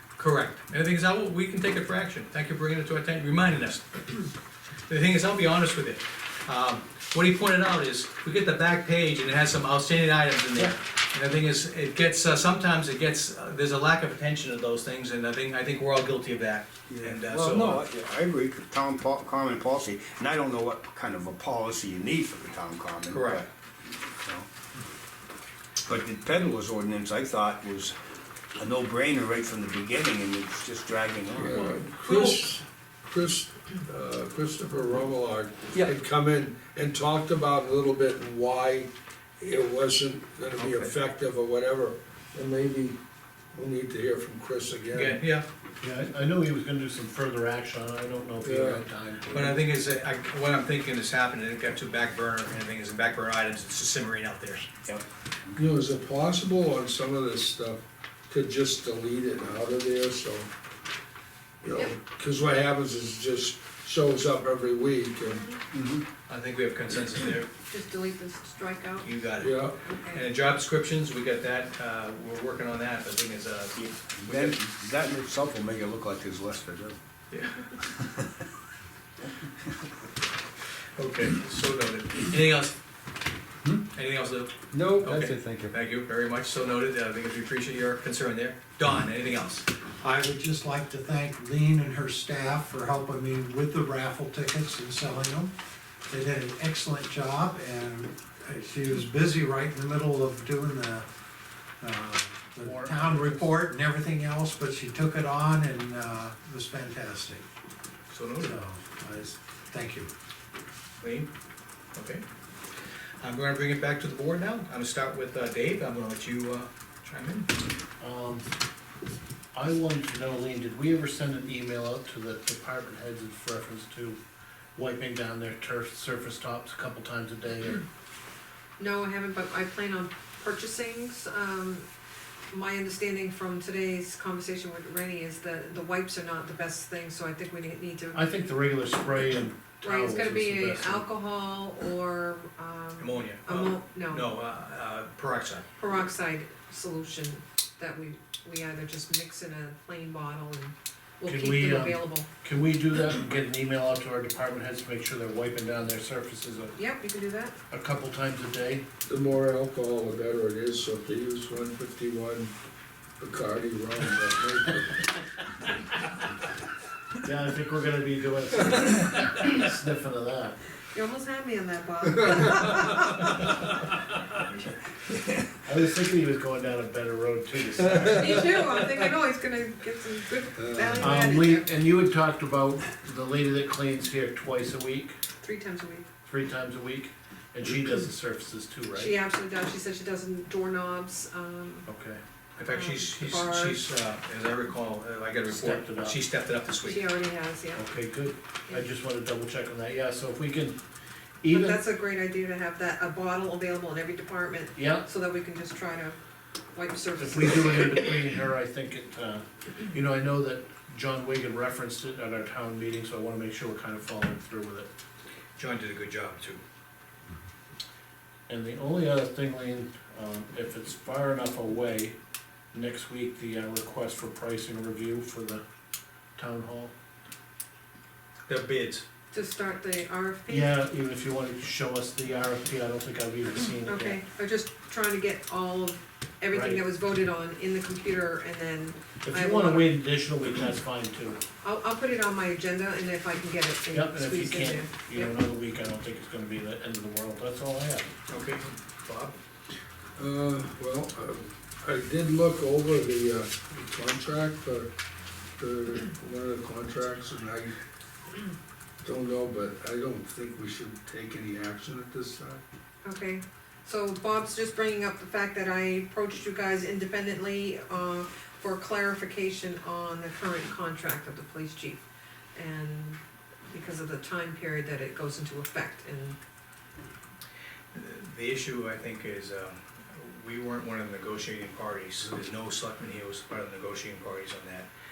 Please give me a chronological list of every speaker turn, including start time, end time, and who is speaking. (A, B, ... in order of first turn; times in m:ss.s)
0:00.2-0:04.3 A
0:04.9-0:17.8 A
0:16.9-0:23.4 B
0:23.1-0:23.4 A
0:24.2-0:24.5 B
0:25.8-0:27.9 B
0:28.6-0:31.6 B
0:31.4-0:43.0 C
0:31.5-0:32.4 A
0:43.5-0:45.2 C
0:44.9-0:45.4 A
0:45.8-0:49.6 D
0:48.4-0:48.8 C
0:49.3-0:54.7 A
0:54.8-0:55.6 B
0:55.6-1:00.5 C
1:01.6-1:05.5 C
1:05.7-1:06.0 B
1:06.3-1:07.5 A
1:07.7-1:09.1 E
1:09.0-1:14.6 A
1:09.4-1:09.8 C
1:09.8-1:10.2 E
1:14.2-1:17.0 B
1:17.3-1:17.8 A
1:21.0-1:22.7 A
1:23.9-1:24.5 A
1:24.7-1:25.7 B
1:25.0-1:29.7 A
1:30.0-1:35.5 F
1:36.1-1:41.0 F
1:41.8-1:47.4 F
1:42.6-1:43.7 D
1:48.1-1:48.6 A
1:48.4-1:50.1 F
1:51.0-1:51.3 A
1:51.9-1:52.2 A
1:53.2-1:57.5 A
1:58.0-1:58.4 D
1:59.5-2:04.2 D
2:04.8-2:07.8 D
2:08.8-2:11.8 E
2:12.5-2:18.2 E
2:18.1-2:21.0 D
2:19.8-2:24.3 E
2:23.0-2:25.6 A
2:25.8-2:32.3 E
2:31.2-2:36.7 D
2:36.7-2:37.5 E
2:37.7-2:38.8 D
2:39.0-2:42.5 C
2:43.2-2:45.1 C
2:47.2-2:50.6 D
2:50.9-2:53.3 E
2:55.6-2:58.4 D
2:58.1-3:01.7 E
3:00.5-3:01.2 C
3:01.0-3:05.2 D
3:05.4-3:06.0 E
3:06.2-3:09.2 D
3:08.9-3:11.8 E
3:11.9-3:12.2 D
3:12.6-3:17.0 A
3:12.7-3:13.9 E
3:15.5-3:16.2 D
3:16.8-3:17.8 E
3:17.7-3:20.8 D
3:21.4-3:21.8 D
3:21.5-3:26.2 E
3:24.8-3:25.0 D
3:26.7-3:27.9 E
3:27.2-3:34.9 D
3:35.6-3:36.6 A
3:38.5-3:42.1 D
3:42.7-3:45.6 D
3:46.4-3:46.9 D
3:48.5-3:49.0 A
3:49.3-3:50.7 E
3:50.5-3:54.2 D
3:53.8-4:00.0 E
3:56.5-3:56.8 D
3:59.2-4:01.4 D
4:01.6-4:05.3 E
4:03.9-4:08.1 D
4:08.3-4:09.4 A
4:10.2-4:14.9 C
4:15.6-4:17.7 C
4:19.0-4:22.6 C
4:23.0-4:32.0 E
4:32.5-4:36.4 E
4:37.9-4:44.9 A